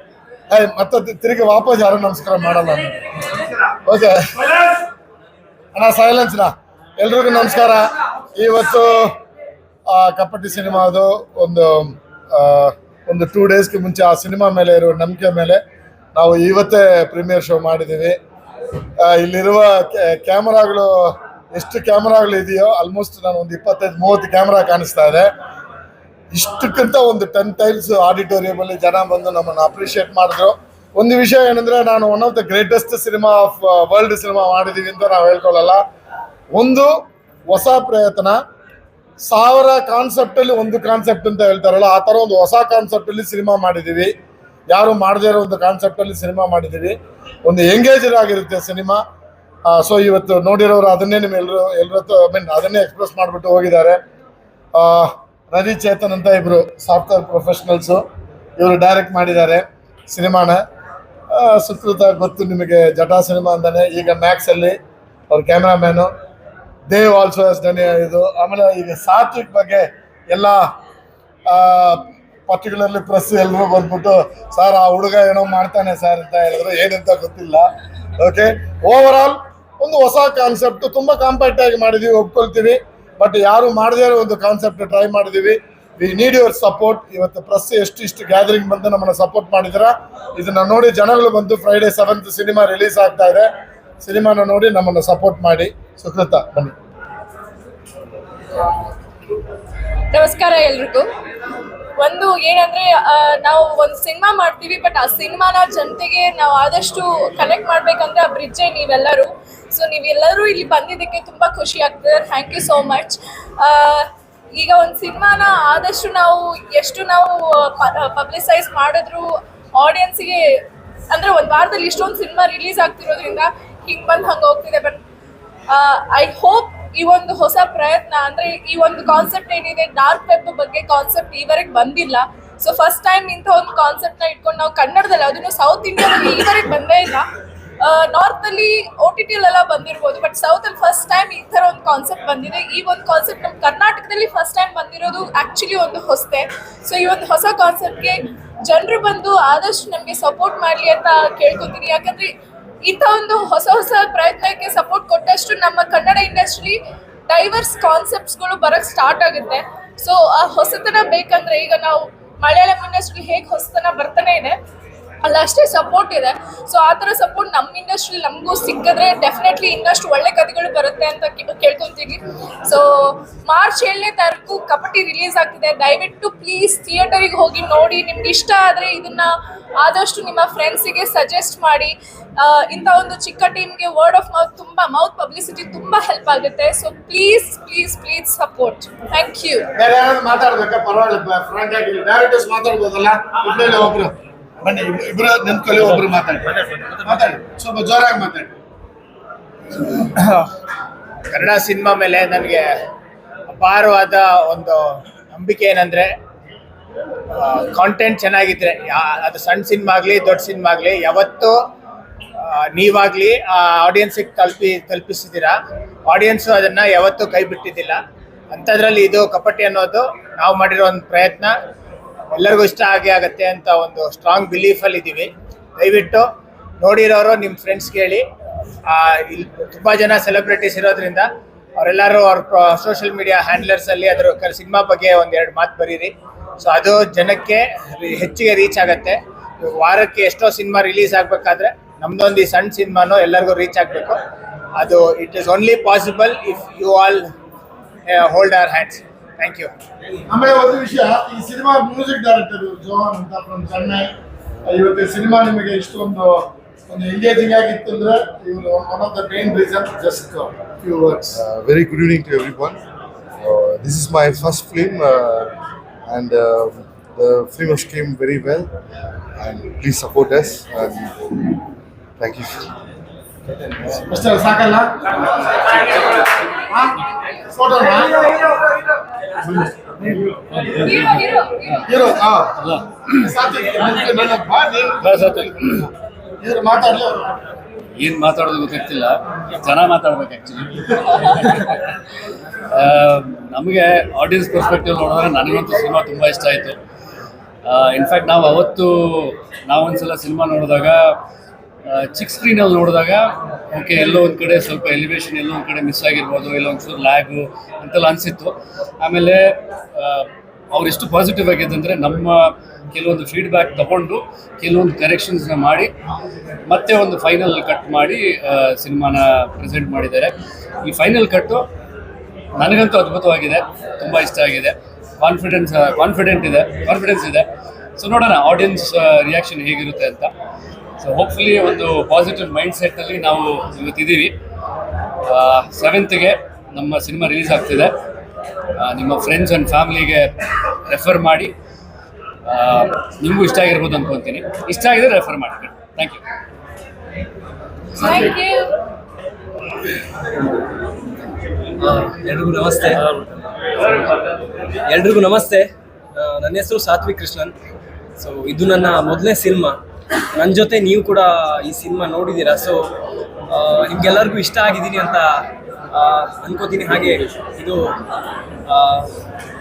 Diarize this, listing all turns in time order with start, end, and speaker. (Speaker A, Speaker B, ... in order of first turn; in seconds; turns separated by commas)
Speaker A: 0.5-4.8, Speaker A: 5.7-9.2, Speaker A: 9.9-15.6, Speaker A: 16.1-18.2, Speaker A: 19.0-25.3, Speaker A: 26.3-35.8, Speaker A: 36.5-36.9, Speaker A: 37.5-38.4, Speaker A: 39.2-44.1, Speaker A: 44.7-49.0, Speaker A: 49.7-54.0, Speaker A: 54.7-58.0, Speaker A: 58.6-60.6, Speaker A: 61.3-64.8, Speaker A: 65.3-66.1, Speaker A: 66.9-70.6, Speaker A: 71.5-77.7, Speaker A: 78.2-93.5, Speaker A: 94.0-96.7, Speaker B: 100.1-101.0, Speaker B: 102.0-125.0, Speaker B: 125.7-137.3, Speaker B: 137.8-152.3, Speaker B: 152.8-164.6, Speaker B: 165.2-189.7, Speaker A: 189.8-198.5, Speaker C: 200.1-200.4, Speaker C: 201.3-202.7, Speaker C: 203.5-206.1, Speaker C: 207.3-211.6, Speaker C: 212.4-215.5, Speaker C: 216.1-218.0, Speaker C: 218.5-221.5, Speaker C: 222.3-226.2, Speaker C: 226.8-228.2, Speaker C: 228.9-244.2, Speaker C: 244.8-247.3, Speaker C: 248.0-249.7, Speaker A: 250.3-254.1, Speaker A: 254.7-261.4, Speaker D: 261.3-262.8, Speaker D: 263.4-265.5, Speaker D: 266.1-268.7, Speaker D: 269.4-271.5, Speaker D: 272.2-272.7, Speaker A: 274.0-275.0, Speaker A: 276.7-277.0, Speaker A: 277.5-278.5, Speaker A: 279.4-280.2, Speaker E: 280.5-281.2, Speaker B: 280.8-281.8, Speaker A: 281.8-282.6, Speaker E: 282.6-282.8, Speaker A: 283.1-285.9, Speaker E: 285.0-285.8, Speaker A: 286.4-287.3, Speaker E: 288.0-291.9, Speaker E: 292.7-296.8, Speaker E: 297.6-301.2, Speaker E: 301.9-315.9, Speaker E: 316.7-321.6, Speaker E: 322.6-330.3, Speaker E: 331.0-334.4, Speaker E: 335.2-337.9, Speaker E: 338.8-340.3, Speaker E: 340.9-341.5, Speaker E: 342.4-346.2, Speaker B: 348.0-348.6, Speaker F: 351.8-353.0, Speaker F: 353.8-354.1, Speaker F: 354.9-357.5, Speaker F: 358.2-359.8, Speaker F: 360.3-362.9, Speaker F: 363.5-368.0, Speaker F: 368.7-369.1